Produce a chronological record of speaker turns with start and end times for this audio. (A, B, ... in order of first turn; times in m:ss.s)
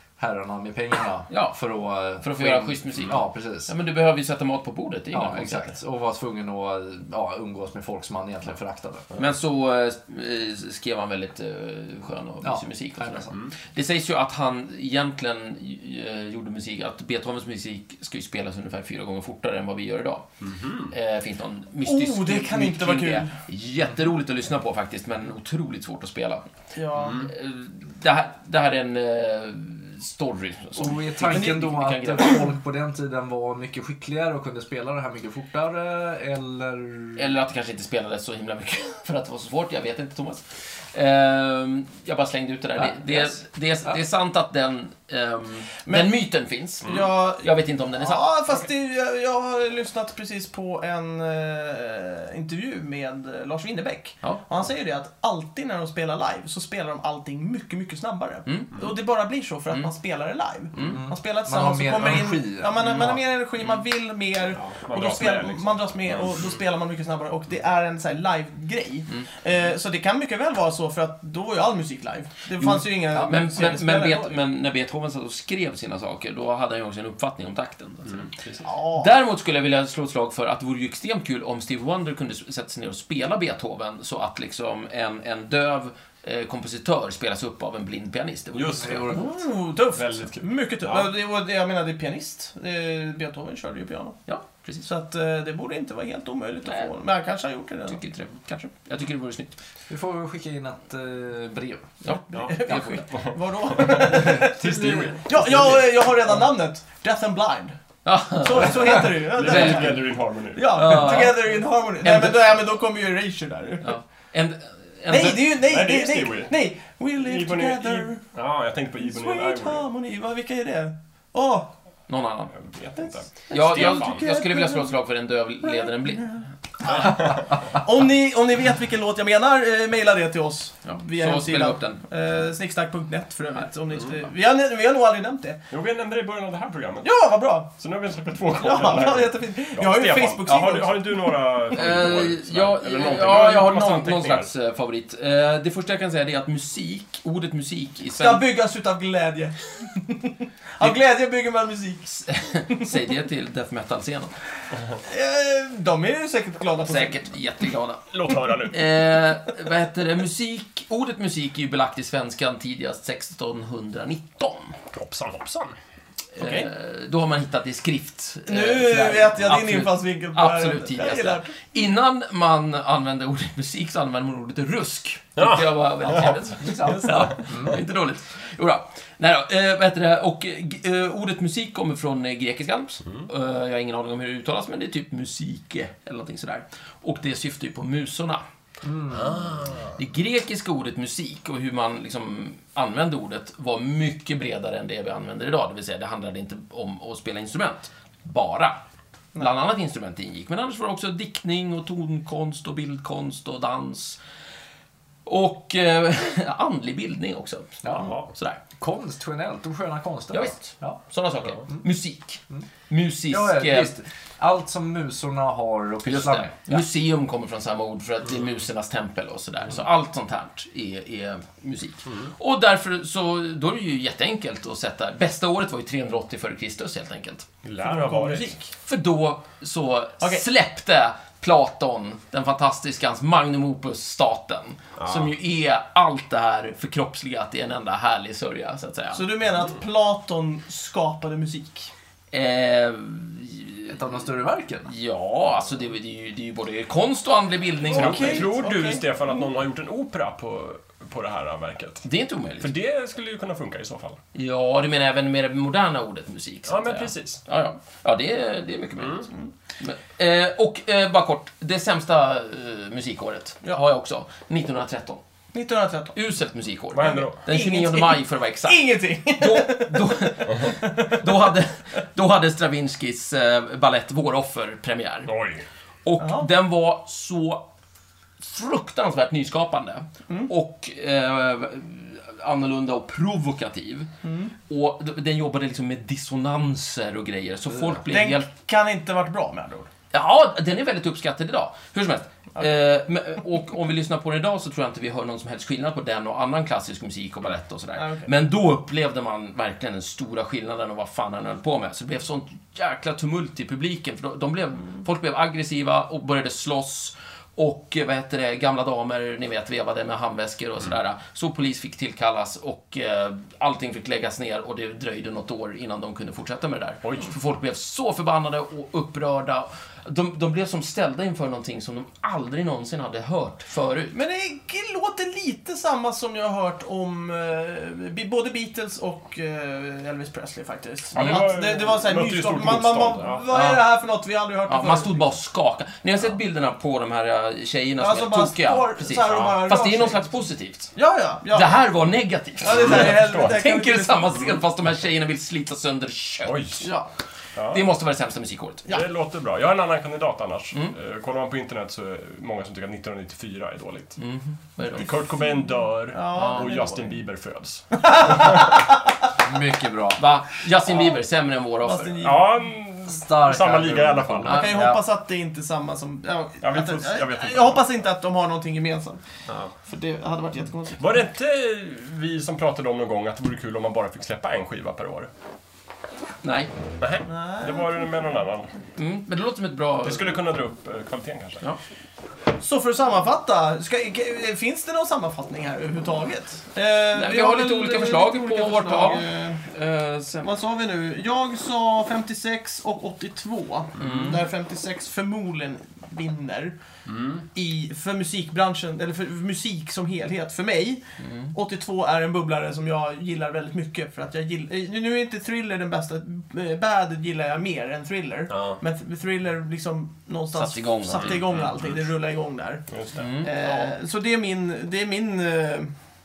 0:00.2-0:03.7 A
0:01.3-0:01.6 B
0:02.2-0:05.8 B
0:05.1-0:09.1 A
0:09.2-0:20.3 B
0:12.4-0:13.3 A
0:20.4-0:20.9 C
0:20.9-0:26.4 B
0:21.8-0:23.4 D
0:26.8-0:27.3 D
0:27.0-0:27.3 C
0:27.1-0:32.5 B
0:30.8-0:37.4 A
0:37.2-0:48.3 B
0:42.8-0:44.0 A
0:45.9-0:46.1 D
0:46.8-1:14.3 D
0:58.5-0:58.7 B
1:00.7-1:01.0 B
1:00.8-1:03.2 A
1:04.6-1:06.4 C
1:12.6-1:18.3 B
1:18.1-1:18.7 C
1:18.6-1:19.1 D
1:19.0-1:29.2 B
1:28.5-1:29.4 C
1:28.8-1:29.3 A
1:29.1-1:34.2 D
1:29.9-1:31.1 C
1:34.3-1:34.9 B
1:34.8-1:38.0 D
1:36.6-1:36.9 B
1:37.9-1:39.5 B
1:39.9-1:42.0 A
1:42.0-1:43.0 B
1:42.3-1:44.5 D
1:42.3-1:42.6 C
1:43.1-1:45.8 C
1:44.0-1:45.2 A
1:45.2-1:47.8 D
1:48.0-1:50.1 B
1:48.4-1:54.0 D
1:49.1-1:51.0 C
1:50.6-1:52.6 B
1:53.8-1:55.5 B
1:55.1-1:58.2 D
1:55.6-1:56.6 C
1:57.2-1:59.8 C
1:59.0-2:01.7 D
2:02.1-2:02.5 B
2:02.5-2:04.2 C
2:03.0-2:04.9 D
2:03.5-2:06.4 B
2:05.6-2:15.6 D
2:06.9-2:07.5 C
2:10.8-2:12.0 B
2:15.7-2:17.1 C
2:17.0-2:17.7 D
2:17.7-2:24.5 C
2:18.6-2:21.5 D
2:21.7-2:28.5 B
2:28.2-2:32.1 D
2:32.1-2:34.3 B
2:35.0-2:37.2 D
2:36.8-2:38.1 B
2:38.1-2:38.9 C
2:38.6-2:44.8 B
2:44.9-2:45.8 C
2:46.4-3:08.4 B
2:46.4-2:46.7 D
2:48.5-2:51.6 D
2:55.4-2:56.4 C
2:56.6-2:57.8 A
3:08.8-3:09.5 A
3:09.1-3:10.0 C
3:10.0-3:18.8 B
3:19.4-3:24.2 B
3:25.3-3:28.6 B
3:27.8-3:31.0 A
3:28.0-3:28.3 C
3:30.3-3:33.9 B
3:33.3-3:36.8 A
3:36.0-3:47.5 B
3:47.6-3:48.5 C
3:47.8-3:48.7 D
3:48.9-3:59.2 B
3:55.0-3:55.3 C
3:59.1-4:01.9 D
4:02.3-4:04.0 B
4:03.9-4:04.9 A
4:04.9-4:08.6 B
4:07.9-4:09.1 D
4:07.9-4:12.0 C
4:12.0-4:12.7 B
4:12.6-4:14.2 C
4:14.3-4:25.2 B
4:16.7-4:17.4 C
4:19.0-4:19.3 C
4:25.5-4:26.2 D
4:26.1-4:35.3 B
4:26.9-4:27.4 C
4:27.5-4:31.3 D
4:35.3-4:35.6 C
4:36.0-4:37.7 B
4:36.2-4:36.5 D
4:38.4-4:44.1 B
4:44.2-4:44.5 D
4:44.7-4:48.5 B
4:48.1-4:49.9 D
4:50.1-5:24.2 B
4:58.0-4:58.3 D
5:17.0-5:17.3 C
5:24.1-5:35.2 D
5:31.1-5:33.5 C
5:33.5-5:33.8 B
5:34.7-5:40.9 B
5:38.0-5:40.3 D
5:39.3-5:39.6 C
5:41.0-5:41.8 D
5:41.5-5:46.9 B
5:42.6-5:44.6 D
5:42.6-5:43.6 C
5:46.4-5:46.9 C
5:47.6-5:47.9 C
5:47.7-5:48.9 B
5:48.9-5:54.2 C
5:54.2-5:55.1 B
5:54.9-5:58.8 C
5:56.1-5:57.2 D
5:56.3-5:56.7 B
5:58.0-5:59.0 D
5:59.4-6:00.2 A
6:00.2-6:02.1 B
6:01.8-6:02.6 D
6:02.2-6:04.8 C
6:03.1-6:04.8 A
6:04.4-6:05.0 B
6:04.5-6:09.2 D
6:06.6-6:08.0 C
6:09.5-6:09.7 C
6:09.8-6:11.2 D
6:11.0-6:15.3 C
6:16.4-6:16.7 B
6:17.0-6:18.7 C
6:17.2-6:18.0 D
6:19.0-6:20.4 B
6:20.0-6:21.6 C
6:22.6-6:29.6 D
6:27.1-6:30.5 B
6:30.4-6:36.8 D
6:34.0-6:34.4 B
6:37.1-6:37.4 C
6:37.5-6:52.9 D
6:41.2-6:41.5 B
6:48.5-6:48.8 C
6:50.6-6:51.5 B
6:51.2-6:52.0 C
6:52.9-6:53.3 C
6:53.2-6:53.9 B
6:53.4-6:55.9 D